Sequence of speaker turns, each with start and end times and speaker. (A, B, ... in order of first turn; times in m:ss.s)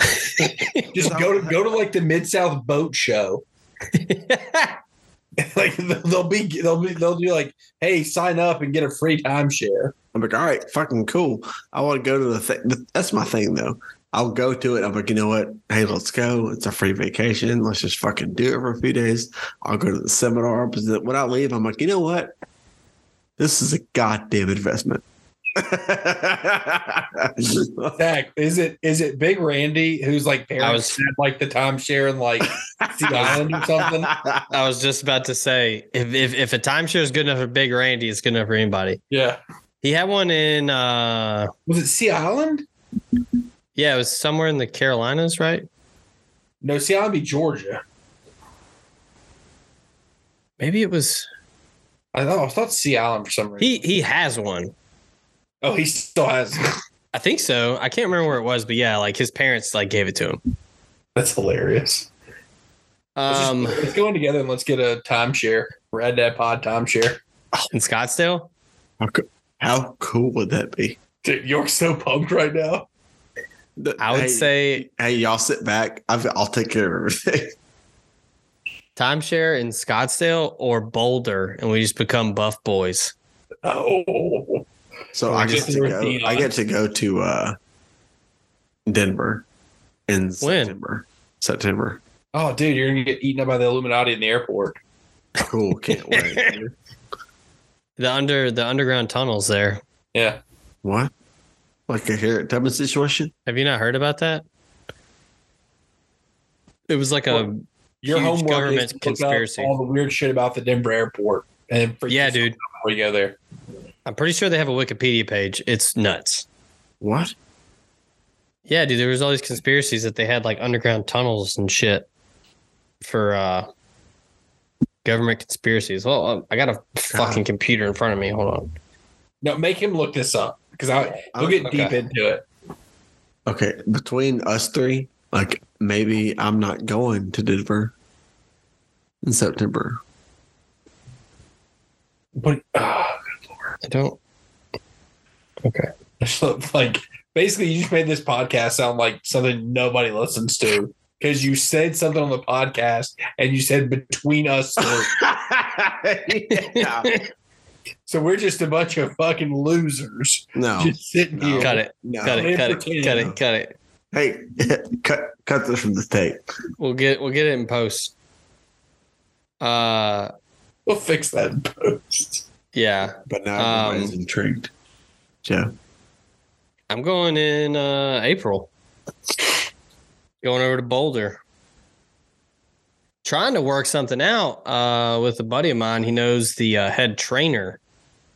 0:00.2-0:00.9 A
0:00.9-0:03.4 B
0:00.9-0:01.8 C
0:03.9-0:04.8 A
0:05.4-0:09.9 B
0:10.1-0:22.3 C
0:23.4-0:25.0 C
0:25.5-0:28.0 C
0:28.0-0:34.1 B
0:30.6-0:31.0 A
0:32.8-0:34.5 C
0:34.5-0:39.0 A
0:39.1-0:39.4 B
0:39.8-0:41.5 A
0:41.7-0:42.6 B
0:43.8-0:45.6 A
0:46.6-0:47.8 B
0:50.6-0:51.3 A
0:52.1-0:53.8 B
0:53.6-0:54.7 A
0:55.6-0:56.8 B
0:57.1-1:00.4 A
1:01.1-1:02.1 B
1:03.2-1:03.8 A
1:03.3-1:07.2 B
1:07.7-1:08.5 A
1:09.0-1:11.0 C
1:11.2-1:12.9 B
1:13.8-1:17.5 C
1:14.0-1:14.8 A
1:19.0-1:23.1 A
1:23.6-1:24.6 B
1:25.1-1:27.6 C
1:25.2-1:26.5 B
1:25.3-1:25.6 A
1:28.9-1:29.4 C
1:30.1-1:32.0 C
1:30.4-1:30.7 A
1:32.3-1:34.8 B
1:35.4-1:36.7 C
1:36.0-1:36.5 A
1:38.0-1:39.8 A
1:40.1-1:40.4 B
1:40.8-1:41.1 C
1:41.9-1:43.3 C
1:43.4-1:44.4 A
1:46.9-1:49.7 A
1:48.0-1:53.4 B
1:52.1-1:52.6 A
1:54.0-1:56.4 A
1:57.0-1:57.3 C
1:58.7-2:02.1 A
2:03.0-2:03.7 A
2:05.0-2:08.7 A
2:07.1-2:07.4 C
2:09.4-2:12.4 B
2:11.3-2:11.9 C
2:13.4-2:17.9 C
2:19.2-2:20.0 C
2:22.4-2:23.2 B
2:23.8-2:24.2 A
2:25.6-2:25.9 A
2:26.2-2:35.2 B
2:34.8-2:37.2 C
2:36.5-2:37.2 A
2:38.1-2:43.3 B
2:40.6-2:43.4 C
2:41.6-2:43.7 A
2:44.1-2:46.4 C
2:46.8-2:48.1 A
2:49.6-2:50.3 A
2:50.8-2:52.4 B
2:52.7-2:54.1 A
2:53.3-2:54.7 C
2:55.4-2:55.7 C
2:56.9-2:58.7 A
3:00.4-3:01.4 A
3:03.2-3:07.8 A